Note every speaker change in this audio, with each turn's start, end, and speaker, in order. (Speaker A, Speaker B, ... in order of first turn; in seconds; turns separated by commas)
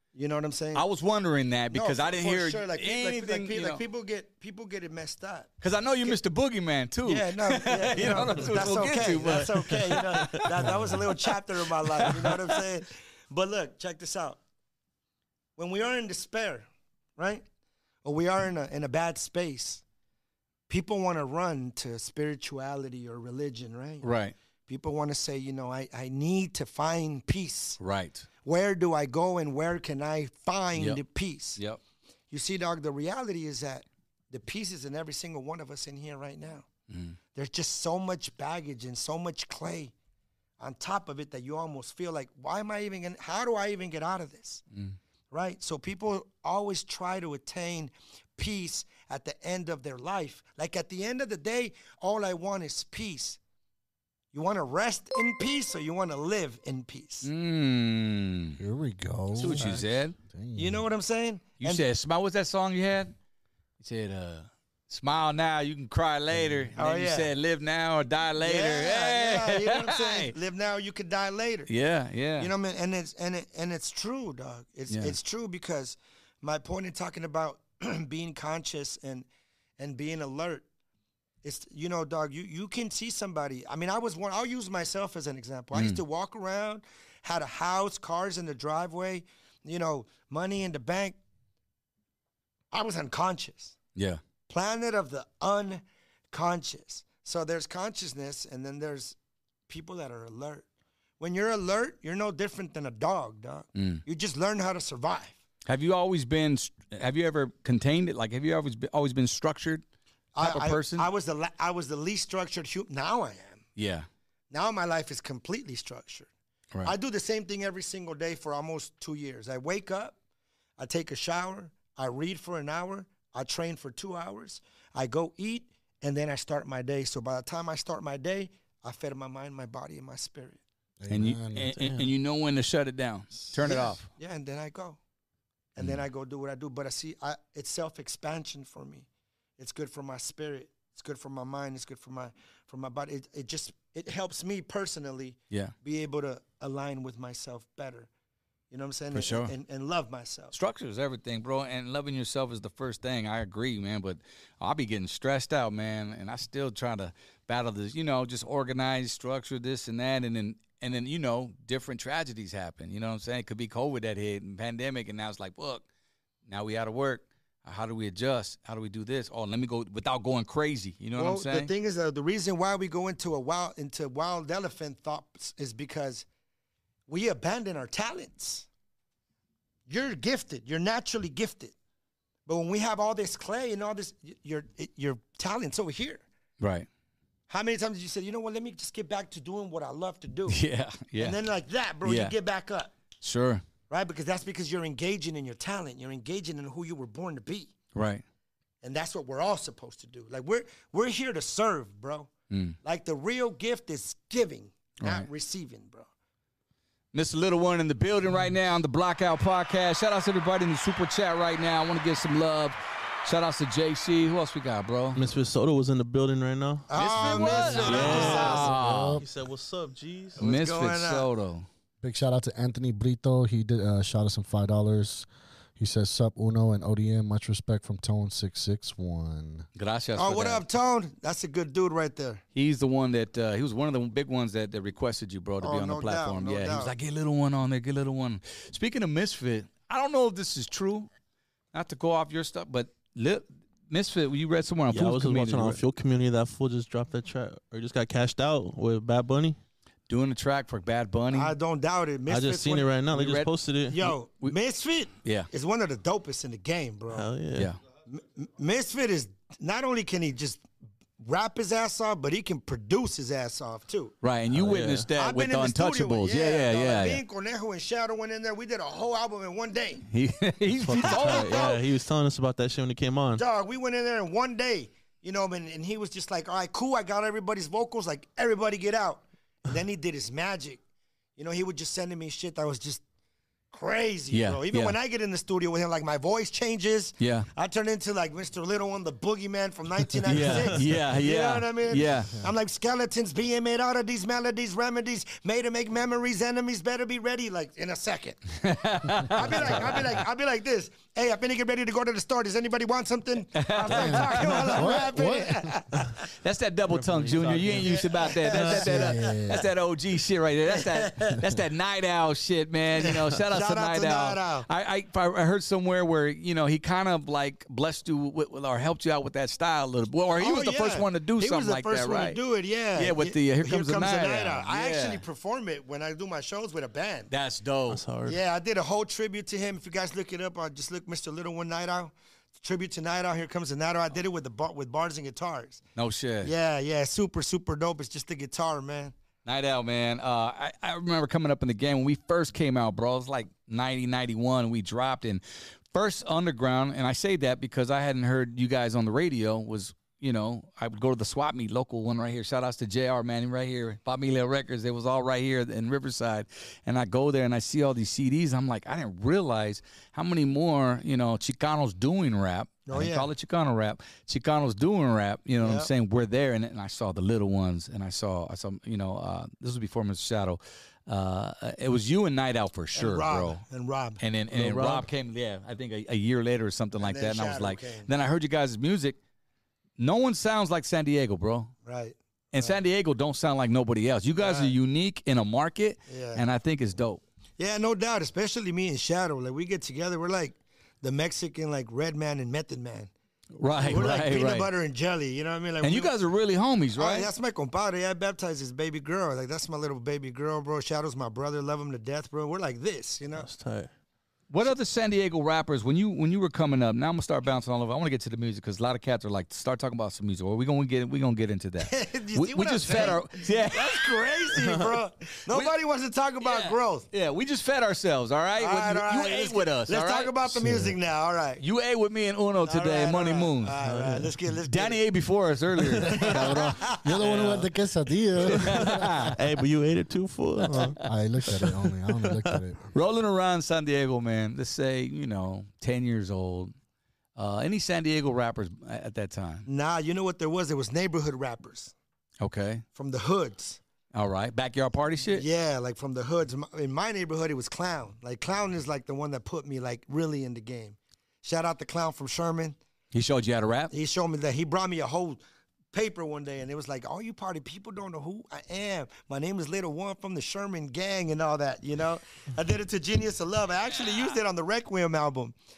Speaker A: 0.1-0.8, Speaker B: 0.7-3.8, Speaker A: 1.7-5.5, Speaker B: 5.6-11.2, Speaker A: 7.0-14.4, Speaker B: 12.0-12.4, Speaker A: 15.6-17.4, Speaker A: 18.0-19.8, Speaker A: 20.7-24.1, Speaker B: 24.0-24.3, Speaker A: 24.7-27.8, Speaker B: 27.8-28.3, Speaker A: 28.4-31.6, Speaker B: 30.8-31.0, Speaker A: 32.3-36.6, Speaker B: 36.9-37.2, Speaker A: 37.3-39.9, Speaker A: 40.6-44.6, Speaker A: 45.3-53.4, Speaker A: 54.3-57.3, Speaker B: 57.2-58.6, Speaker C: 58.6-60.8, Speaker B: 59.4-60.1, Speaker A: 60.5-61.8, Speaker B: 61.6-63.1, Speaker B: 63.8-70.3, Speaker A: 66.8-67.3, Speaker A: 68.4-71.7, Speaker B: 71.7-72.5, Speaker A: 72.4-79.3, Speaker B: 74.9-75.2, Speaker A: 79.8-80.6, Speaker A: 81.4-91.2, Speaker B: 85.7-86.0, Speaker A: 92.7-93.7, Speaker B: 94.0-94.2, Speaker A: 94.5-99.2, Speaker A: 99.7-100.6, Speaker A: 101.2-105.3, Speaker B: 103.7-104.0, Speaker B: 105.7-109.8, Speaker A: 110.3-113.6, Speaker B: 110.4-111.1, Speaker B: 113.8-114.1, Speaker A: 114.5-116.3, Speaker A: 116.8-120.2, Speaker A: 120.8-130.6, Speaker C: 131.0-131.8, Speaker B: 131.1-134.1, Speaker D: 131.7-132.0, Speaker A: 133.6-135.0, Speaker A: 135.7-139.1, Speaker A: 139.6-148.1, Speaker A: 148.7-150.5, Speaker B: 149.1-149.5, Speaker B: 150.5-165.8, Speaker B: 166.5-171.7, Speaker A: 171.2-176.2, Speaker A: 177.1-178.7, Speaker A: 179.9-181.7, Speaker A: 182.4-186.2, Speaker B: 186.6-186.9, Speaker A: 187.5-190.6, Speaker B: 190.5-191.4, Speaker A: 191.2-192.9, Speaker B: 192.0-192.3, Speaker B: 193.2-193.6, Speaker A: 193.9-197.7, Speaker B: 197.9-198.2, Speaker A: 198.8-202.3, Speaker B: 202.5-202.8, Speaker A: 202.8-206.1, Speaker B: 205.0-205.3, Speaker B: 207.1-215.2, Speaker D: 215.2-220.4, Speaker A: 216.9-218.6, Speaker B: 216.9-219.2, Speaker C: 217.8-219.2, Speaker A: 220.4-221.3, Speaker B: 220.4-221.7, Speaker C: 222.0-229.6, Speaker B: 229.8-230.6, Speaker A: 230.2-232.4, Speaker B: 232.5-241.1, Speaker A: 235.6-236.9, Speaker B: 241.7-245.8, Speaker D: 244.9-249.6, Speaker B: 250.1-251.5, Speaker A: 251.3-252.9, Speaker D: 252.3-254.0, Speaker B: 253.1-253.5, Speaker A: 253.9-257.3, Speaker B: 254.1-254.5, Speaker B: 255.2-255.5, Speaker D: 257.1-257.7, Speaker A: 258.1-260.6, Speaker A: 261.2-264.1, Speaker B: 264.2-267.2, Speaker D: 264.5-265.1, Speaker A: 265.1-270.0, Speaker B: 270.1-271.7, Speaker D: 270.7-273.4, Speaker A: 271.0-271.8, Speaker A: 273.4-280.8, Speaker A: 281.4-283.0, Speaker A: 283.7-298.4, Speaker B: 284.3-284.9, Speaker B: 287.2-287.5, Speaker B: 290.2-292.4, Speaker B: 298.6-300.1, Speaker A: 299.3-306.0, Speaker B: 303.6-304.9, Speaker C: 303.9-305.7, Speaker B: 306.4-322.4, Speaker D: 306.9-309.2, Speaker A: 307.9-309.4, Speaker C: 308.6-309.7, Speaker A: 310.7-311.4, Speaker A: 313.0-314.7, Speaker A: 320.4-327.3, Speaker B: 322.9-325.2, Speaker B: 327.3-328.0, Speaker D: 327.9-328.4, Speaker A: 328.2-335.8, Speaker B: 335.9-336.5, Speaker A: 336.4-339.1, Speaker B: 339.4-345.4, Speaker B: 345.9-373.6, Speaker A: 362.9-363.3, Speaker A: 365.6-365.9, Speaker A: 372.9-374.2, Speaker B: 374.2-379.2, Speaker D: 374.5-375.1, Speaker A: 377.0-378.1, Speaker B: 380.0-381.7, Speaker A: 381.8-382.8, Speaker B: 382.5-387.2, Speaker A: 384.4-384.7, Speaker A: 386.1-386.4, Speaker A: 387.6-393.1, Speaker B: 393.6-394.7, Speaker A: 393.8-396.1, Speaker B: 395.8-397.3, Speaker A: 397.0-403.5, Speaker D: 403.4-403.9, Speaker B: 404.5-414.1, Speaker A: 411.8-417.1, Speaker D: 414.6-414.9, Speaker B: 416.4-420.6, Speaker A: 418.6-421.6, Speaker C: 420.6-420.9, Speaker B: 421.6-423.7, Speaker A: 422.6-425.0, Speaker D: 423.8-424.3, Speaker B: 424.7-427.7, Speaker C: 426.1-429.3, Speaker B: 428.4-429.3, Speaker D: 428.6-431.0, Speaker C: 430.7-432.9, Speaker D: 432.2-432.6, Speaker B: 432.9-436.7, Speaker B: 437.4-439.7, Speaker A: 439.6-441.9, Speaker B: 442.4-442.8, Speaker A: 442.9-443.8, Speaker B: 444.1-445.4, Speaker A: 445.3-452.8, Speaker B: 453.1-453.9, Speaker A: 453.9-455.4, Speaker A: 455.9-465.5